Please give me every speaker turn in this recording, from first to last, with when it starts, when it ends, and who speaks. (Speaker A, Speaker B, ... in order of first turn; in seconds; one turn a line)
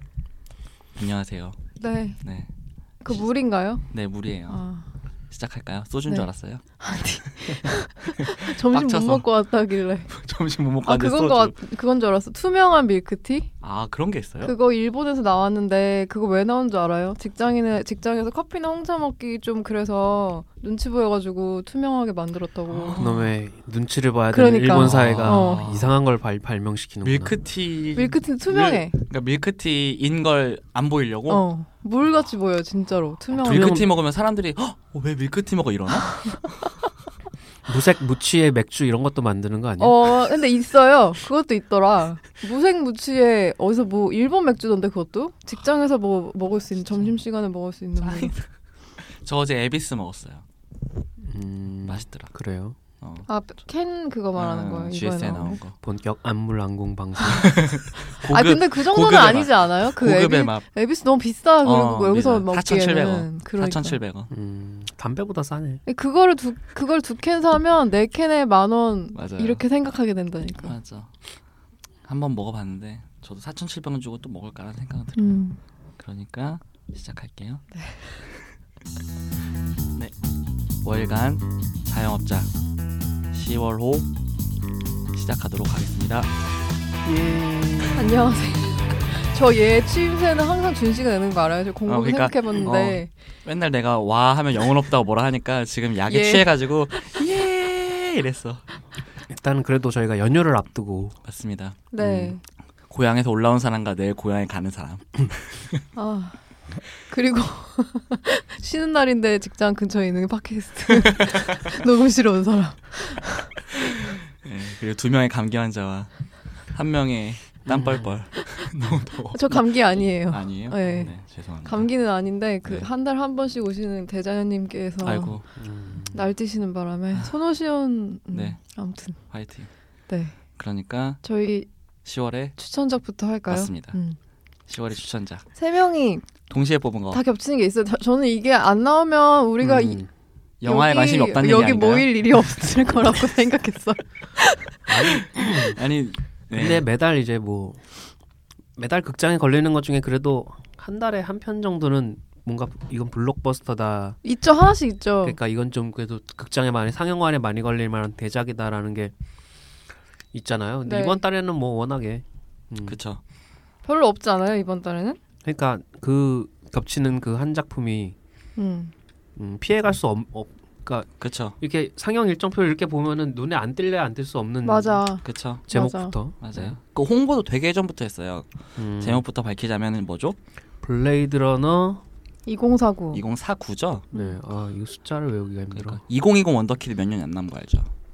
Speaker A: 1.0-1.6
Speaker B: 1.8-2.2
Speaker A: 2.2-2.5
Speaker B: 3.0-3.9
Speaker A: 3.9-4.6
Speaker B: 4.5-4.8
Speaker A: 5.3-6.6
Speaker B: 6.8-10.1
Speaker A: 7.5-9.2
Speaker A: 10.1-11.6
Speaker B: 10.8-13.5
Speaker A: 13.6-14.5
Speaker B: 14.4-23.0
Speaker A: 22.7-23.3
Speaker C: 23.0-27.4
Speaker B: 24.3-25.7
Speaker A: 24.7-25.9
Speaker A: 27.0-31.4
Speaker B: 28.0-28.9
Speaker B: 31.3-33.9
Speaker C: 33.4-33.9
Speaker A: 33.4-36.3
Speaker B: 36.1-36.4
Speaker C: 37.7-40.0
Speaker B: 39.8-48.3
Speaker A: 48.0-48.5
Speaker A: 49.0-50.4
Speaker C: 51.2-52.8
Speaker A: 51.9-52.3
Speaker A: 53.0-53.3
Speaker B: 53.3-55.6
Speaker A: 54.4-55.8
Speaker C: 55.8-57.6
Speaker A: 57.4-60.6
Speaker B: 58.2-64.0
Speaker A: 61.6-64.3
Speaker C: 64.3-65.8
Speaker B: 65.9-70.8
Speaker A: 69.2-69.6
Speaker A: 70.6-71.1
Speaker A: 72.0-75.4
Speaker B: 75.2-75.6
Speaker A: 76.0-77.6
Speaker B: 77.7-78.2
Speaker A: 80.8-82.5
Speaker A: 83.3-84.1
Speaker A: 85.1-86.3
Speaker C: 87.0-88.3
Speaker B: 87.9-93.1
Speaker A: 91.9-98.6
Speaker B: 96.1-96.5
Speaker C: 99.3-101.2
Speaker A: 101.2-101.8
Speaker B: 101.9-102.4
Speaker C: 102.0-102.4
Speaker A: 102.9-105.8
Speaker B: 106.0-106.4
Speaker B: 107.0-113.6
Speaker A: 111.0-111.6
Speaker A: 113.8-121.9
Speaker C: 117.7-118.0
Speaker B: 119.3-121.1
Speaker B: 121.6-125.4
Speaker A: 125.0-125.4
Speaker C: 125.6-126.3
Speaker B: 126.1-129.2
Speaker A: 128.3-128.6
Speaker A: 129.3-129.7
Speaker B: 130.1-130.4
Speaker A: 130.6-131.2
Speaker B: 131.2-131.7
Speaker A: 132.1-132.5
Speaker B: 132.6-134.2
Speaker A: 133.5-134.0
Speaker A: 134.7-135.5
Speaker B: 135.6-136.2
Speaker A: 136.5-137.2
Speaker B: 137.1-140.0
Speaker C: 139.6-140.1
Speaker A: 140.6-142.2
Speaker B: 140.7-145.2
Speaker C: 144.9-145.8
Speaker A: 145.6-146.8
Speaker C: 146.5-147.8
Speaker C: 148.8-154.2
Speaker B: 154.2-155.4
Speaker C: 155.2-159.1
Speaker C: 160.3-163.0
Speaker B: 160.8-161.2
Speaker A: 162.8-163.2
Speaker B: 163.8-165.2
Speaker C: 165.4-168.2
Speaker B: 168.6-168.9
Speaker C: 169.4-171.1
Speaker A: 171.2-171.6
Speaker C: 171.6-175.0
Speaker B: 174.6-176.1
Speaker A: 175.2-175.7
Speaker C: 175.7-176.8
Speaker A: 176.4-180.4
Speaker C: 178.8-179.2
Speaker C: 180.8-182.0
Speaker B: 182.5-183.2
Speaker A: 183.1-184.1
Speaker B: 184.1-184.4
Speaker C: 184.1-186.0
Speaker A: 185.7-187.9